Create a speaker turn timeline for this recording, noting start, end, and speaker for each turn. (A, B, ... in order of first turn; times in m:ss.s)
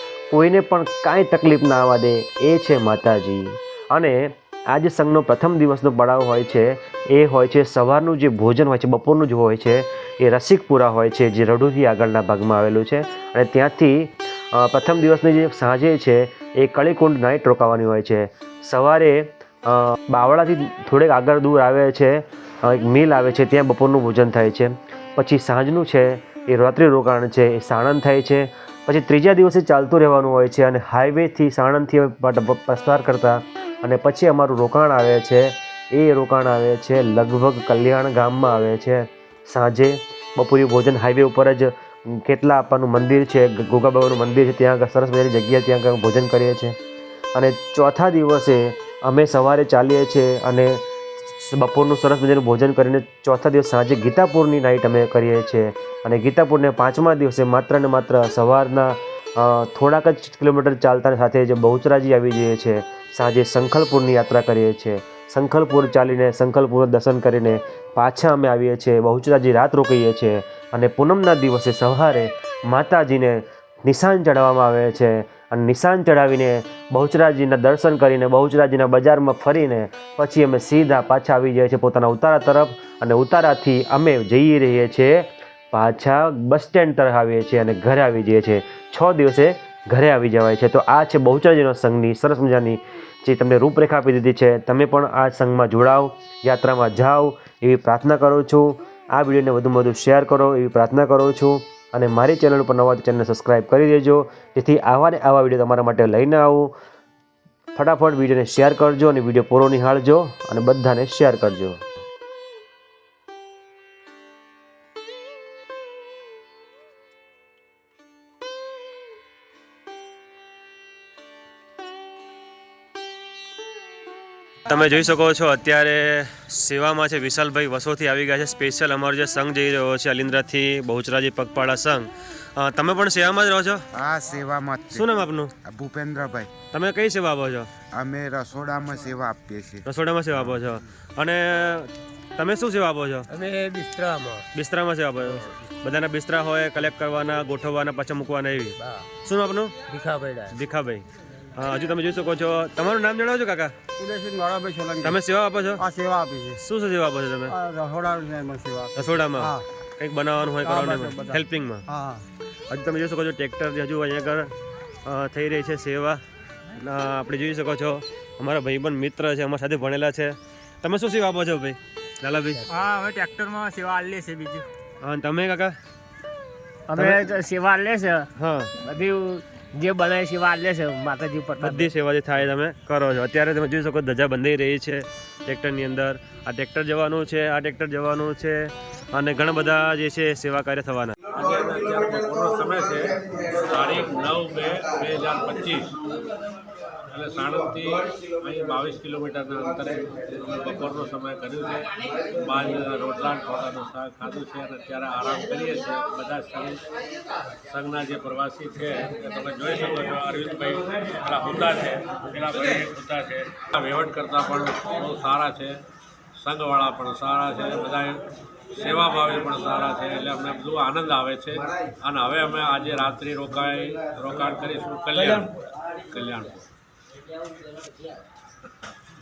0:00.3-0:46.7 A
0:47.3-0:50.8 A
0:51.4-1:46.7 A
1:47.7-1:51.8 A
2:04.6-2:13.8 A
2:13.9-2:15.1 B
2:14.9-2:15.5 A
2:15.6-2:16.5 B
2:16.7-2:17.7 A
2:17.9-2:19.8 B
2:19.8-2:23.3 A
2:23.3-2:24.4 C
2:24.5-2:29.7 A
2:29.9-2:30.5 C
2:30.5-2:33.7 A
2:34.0-2:35.0 D
2:35.0-2:35.8 A
2:35.8-2:36.6 D
2:36.6-2:37.6 A
2:37.6-2:38.9 D
2:39.0-2:41.8 A
2:40.8-2:41.2 D
2:41.9-2:42.2 D
2:42.7-2:44.5 A
2:45.0-2:46.2 A
2:46.7-2:52.6 A
2:52.7-2:54.7 C
2:55.0-2:55.7 A
2:56.9-2:58.3 C
2:57.0-2:57.2 A
2:58.4-2:58.8 A
2:58.8-3:01.9 C
3:01.6-3:11.2 A
3:11.3-3:15.9 E
3:17.1-3:26.8 E
3:27.7-3:35.8 E
3:36.4-3:38.2 E
3:38.7-3:45.5 E
3:46.1-3:46.7 E